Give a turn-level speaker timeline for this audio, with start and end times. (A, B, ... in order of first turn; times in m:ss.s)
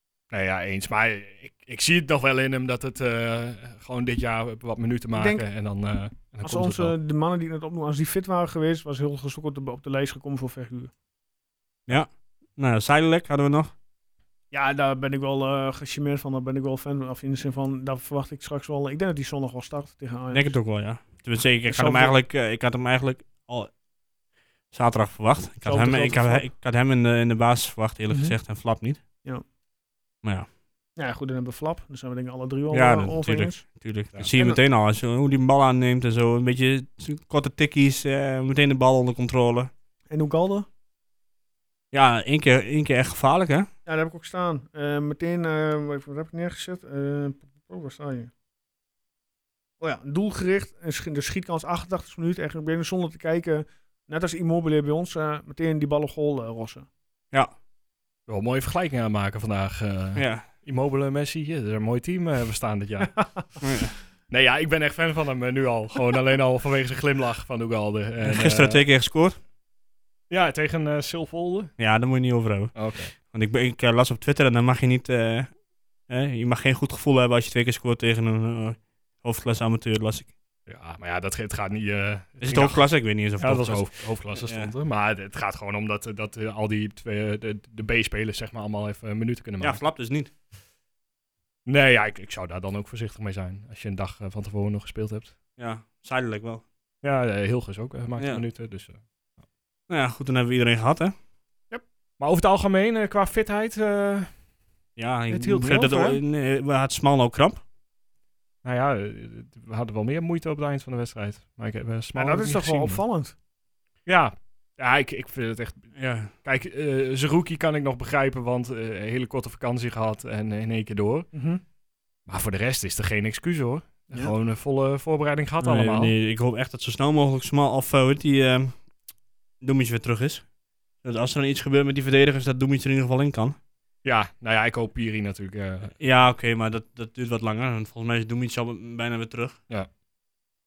0:00.3-0:07.0 A
0:05.2-0:05.5 B
0:06.4-0:10.9 B
0:11.9-0:13.7 C
0:14.5-0:20.6 B
0:20.3-0:23.7 C
0:21.7-0:22.2 B
0:24.7-0:29.0 C
0:25.6-0:26.5 B
0:28.1-0:28.4 B
0:30.2-0:30.5 C
0:31.0-0:33.6 B
0:32.7-0:39.7 C
0:34.3-0:34.6 B
0:40.1-0:40.7 B
0:41.9-0:43.7 C
0:43.9-0:48.3 B
0:49.8-0:56.9 B
0:58.3-1:03.3 A
1:00.2-1:00.5 C
1:03.6-1:04.0 C
1:04.3-1:08.8 A
1:08.2-1:09.4 C
1:10.3-1:11.7 A
1:11.8-1:15.5 C
1:12.8-1:13.1 A
1:16.1-1:20.3 C
1:20.7-1:22.8 A
1:22.4-1:24.7 C
1:23.4-1:29.8 A
1:29.6-1:30.3 C
1:31.7-1:35.3 A
1:35.6-1:36.6 C
1:37.0-1:39.0 A
1:38.2-1:38.4 C
1:39.9-1:41.1 C
1:41.7-1:44.3 A
1:45.0-1:47.6 C
1:45.3-1:46.2 A
1:48.6-1:53.0 A
1:52.2-1:53.3 B
1:54.1-2:01.3 A
1:56.0-1:56.3 C
2:01.3-2:01.6 B
2:02.3-2:06.1 A
2:05.6-2:08.8 C
2:09.6-2:10.4 C
2:11.0-2:13.6 C
2:14.0-2:15.9 A
2:16.0-2:19.6 C